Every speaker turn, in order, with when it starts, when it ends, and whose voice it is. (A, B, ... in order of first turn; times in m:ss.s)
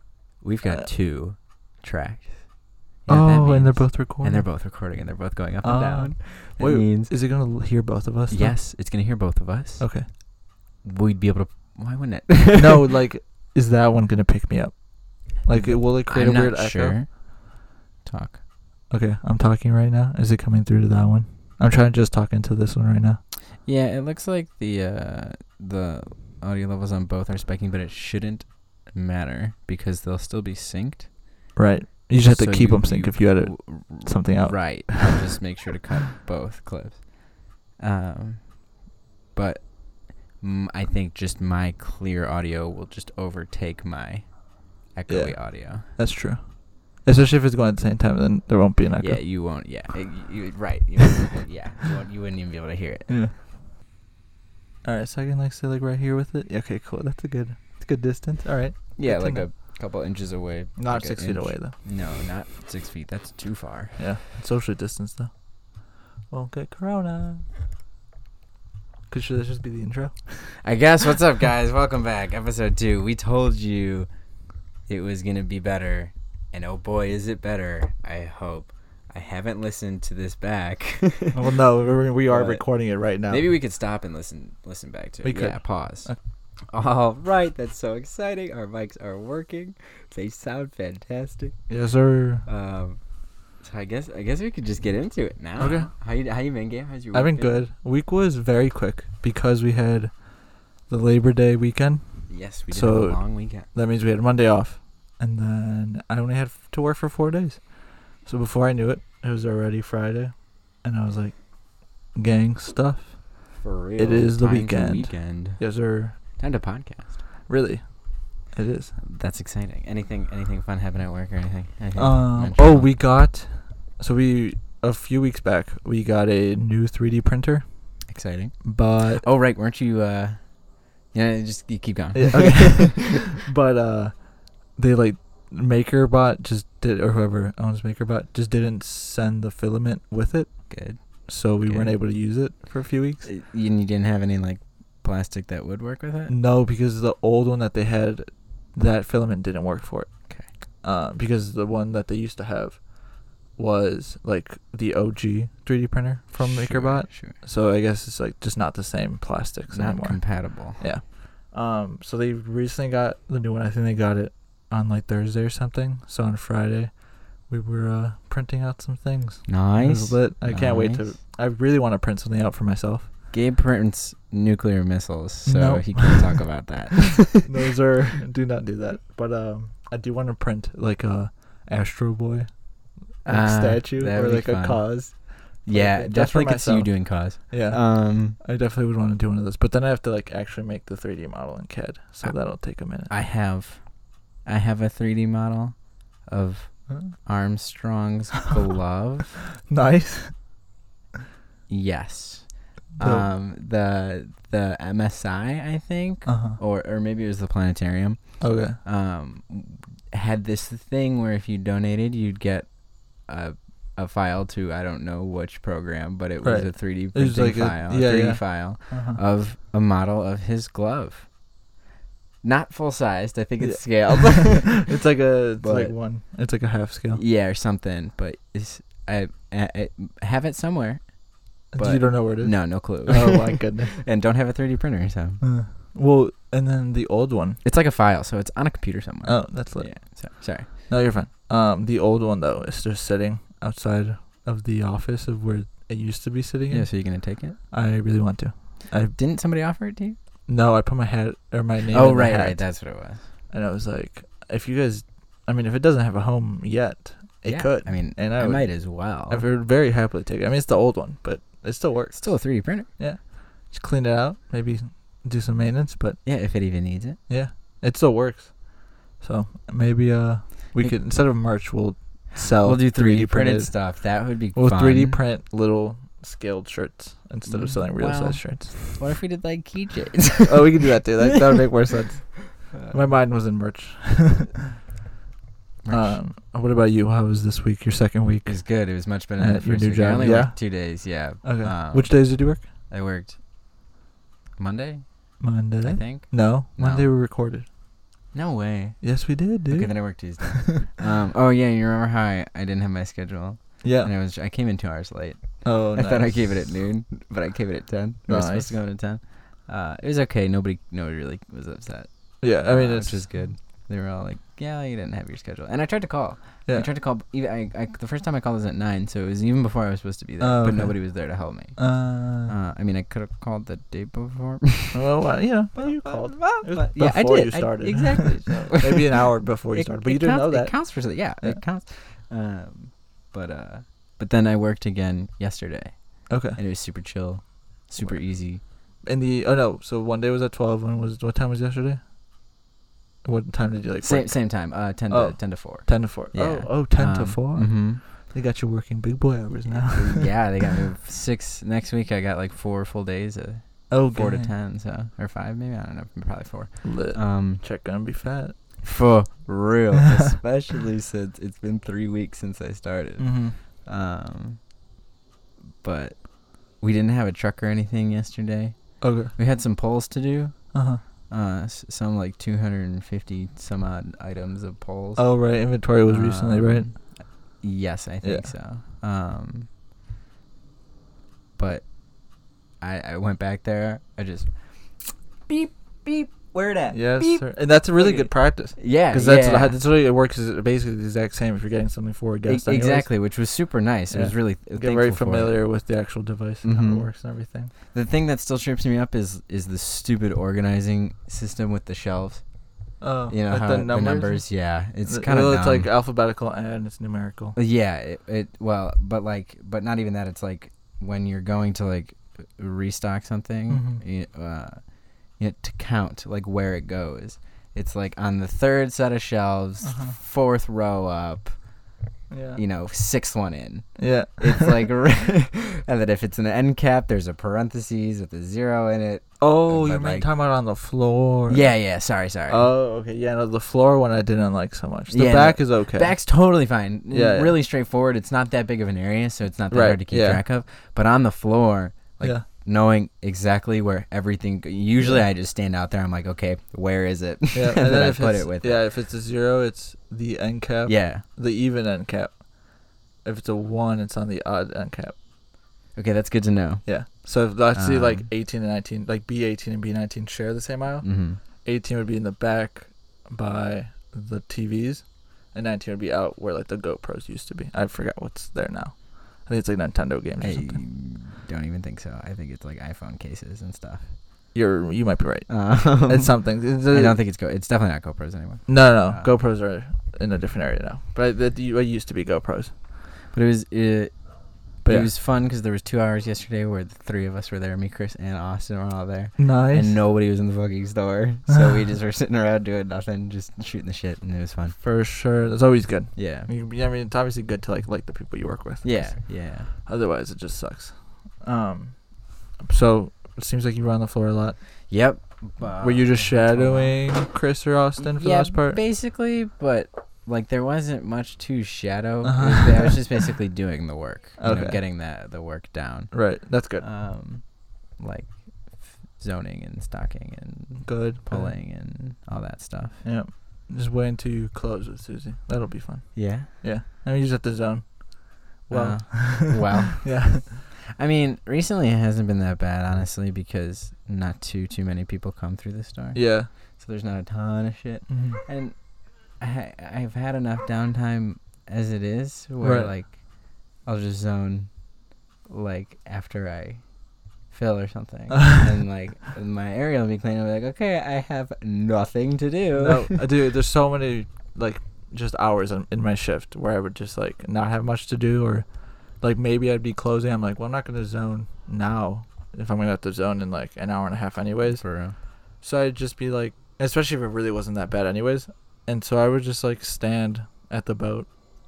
0:00.4-0:07.1 A
0:03.1-0:04.5 B
0:05.6-0:08.6 B
0:08.3-0:09.9 A
0:09.8-0:10.1 B
0:10.8-0:12.9 A
0:12.6-0:17.0 B
0:15.5-0:18.4 A
0:18.9-0:23.2 B
0:23.6-0:31.1 A
0:31.6-0:35.3 B
0:32.1-0:37.1 A
0:37.7-0:38.6 A
0:39.3-0:45.9 A
0:45.1-0:49.2 B
0:49.0-0:53.2 A
0:53.1-0:53.3 B
0:54.8-0:59.5 B
0:59.0-1:04.0 A
1:00.8-1:01.8 B
1:04.0-1:05.3 B
1:06.3-1:07.4 B
1:09.1-1:10.6 B
1:10.6-1:14.1 A
1:14.9-1:21.4 A
1:21.3-1:23.5 B
1:22.3-1:22.6 A
1:23.3-1:26.1 A
1:25.2-1:26.2 B
1:26.7-1:31.6 A
1:31.7-1:32.4 B
1:32.5-1:33.0 A
1:33.6-1:37.6 A
1:35.6-1:35.9 B
1:37.1-1:40.3 B
1:40.8-1:51.5 B
1:42.3-1:43.7 A
1:52.1-1:53.4 B
1:53.6-1:55.6 A
1:54.0-1:56.2 B
1:56.1-1:57.2 A
1:57.5-1:58.9 B
1:59.0-2:02.9 A
2:02.0-2:08.0 B
2:08.1-2:13.1 A
2:08.6-2:09.2 B
2:12.2-2:23.3 B
2:20.7-2:22.0 A
2:23.2-2:26.3 A
2:26.3-2:53.1 B
2:36.4-2:37.4 A
2:39.7-2:40.8 A
2:49.5-2:51.1 A
2:53.3-2:57.5 A
2:55.5-3:02.5 B
3:03.2-3:13.1 B
3:03.3-3:08.4 A
3:13.1-3:13.9 A
3:14.4-3:19.4 A
3:19.6-3:20.5 B
3:21.7-3:41.3 A
3:23.0-3:23.3 B
3:26.3-3:26.6 B
3:28.4-3:28.8 B
3:36.4-3:39.2 B
3:42.4-3:44.9 A
3:43.6-3:47.2 B
3:45.6-3:45.9 A
3:47.1-3:55.4 A
3:51.7-3:54.0 B
3:55.4-3:57.6 B
3:57.6-4:00.7 A
3:59.2-4:07.2 B
4:06.7-4:07.6 A
4:07.7-4:09.2 B
4:09.2-4:10.2 A
4:10.5-4:12.7 B
4:11.9-4:13.2 A
4:13.5-4:26.2 B
4:17.4-4:19.4 A
4:22.2-4:22.9 A
4:26.2-4:27.2 A
4:27.3-4:38.9 B
4:32.6-4:35.2 A
4:37.5-4:41.0 A
4:40.4-4:44.7 B
4:45.8-4:46.2 A
4:45.9-4:48.7 B
4:48.4-4:53.4 A
4:49.4-4:52.7 B
4:54.6-4:57.1 A
4:55.4-4:57.7 B
4:58.3-5:25.0 A
4:59.0-5:00.8 B
5:03.8-5:04.1 B
5:05.6-5:06.5 B
5:08.3-5:08.8 B
5:12.4-5:13.2 B
5:20.4-5:22.6 B
5:24.9-5:31.6 B
5:25.8-5:38.6 A
5:36.3-5:36.6 B
5:38.0-5:38.3 B
5:39.0-5:42.0 B
5:43.2-5:50.7 B
5:44.0-5:48.0 A
5:49.7-5:57.6 A
5:53.9-5:54.5 B
5:56.8-5:58.8 B
5:58.8-6:04.6 A
6:03.2-6:03.6 B
6:05.8-6:10.7 A
6:09.0-6:09.3 B
6:10.7-6:11.0 B
6:11.3-6:15.4 A
6:15.2-6:16.9 B
6:16.1-6:19.7 A
6:18.2-6:18.5 B
6:21.6-6:29.8 A
6:26.9-6:33.2 B
6:32.5-6:35.5 A
6:34.1-6:37.7 B
6:36.6-6:37.1 A
6:37.9-6:42.4 A
6:43.0-6:44.5 B
6:43.3-6:45.9 A
6:45.1-6:47.6 B
6:47.6-7:01.8 A
6:53.7-6:54.0 B
6:59.8-7:00.2 B
7:02.3-7:02.6 B
7:02.6-7:10.3 A
7:04.0-7:04.8 B
7:09.4-7:11.7 B
7:11.5-7:12.7 A
7:12.5-7:16.2 B
7:15.1-7:28.8 A
7:17.1-7:17.6 B
7:19.7-7:20.4 B
7:22.2-7:22.5 B
7:25.0-7:25.2 B
7:27.5-7:35.2 B
7:30.9-7:31.2 A
7:36.0-7:36.9 A
7:36.8-7:50.8 B
7:37.7-7:38.3 A
7:41.0-7:41.4 A
7:50.4-7:54.2 A
7:54.5-7:57.2 B
7:55.5-7:59.3 A
7:58.7-8:02.7 B
8:03.3-8:14.8 A
8:04.8-8:05.1 B
8:09.4-8:09.9 B
8:14.8-8:24.6 B
8:16.2-8:16.5 A
8:18.8-8:19.7 A
8:24.9-8:27.0 A
8:25.8-8:28.8 B
8:28.0-8:43.0 A
8:32.2-8:33.2 B
8:34.4-8:34.8 B
8:36.1-8:36.9 B
8:40.8-8:41.6 B
8:43.0-8:50.6 B
8:46.2-8:46.5 A
8:48.7-8:58.8 A
8:56.2-8:56.5 B
8:58.1-8:58.4 B
8:59.3-9:04.8 A
9:02.6-9:02.9 B
9:05.5-9:13.2 A
9:12.7-9:24.9 B
9:24.8-9:25.2 A
9:25.6-9:31.3 B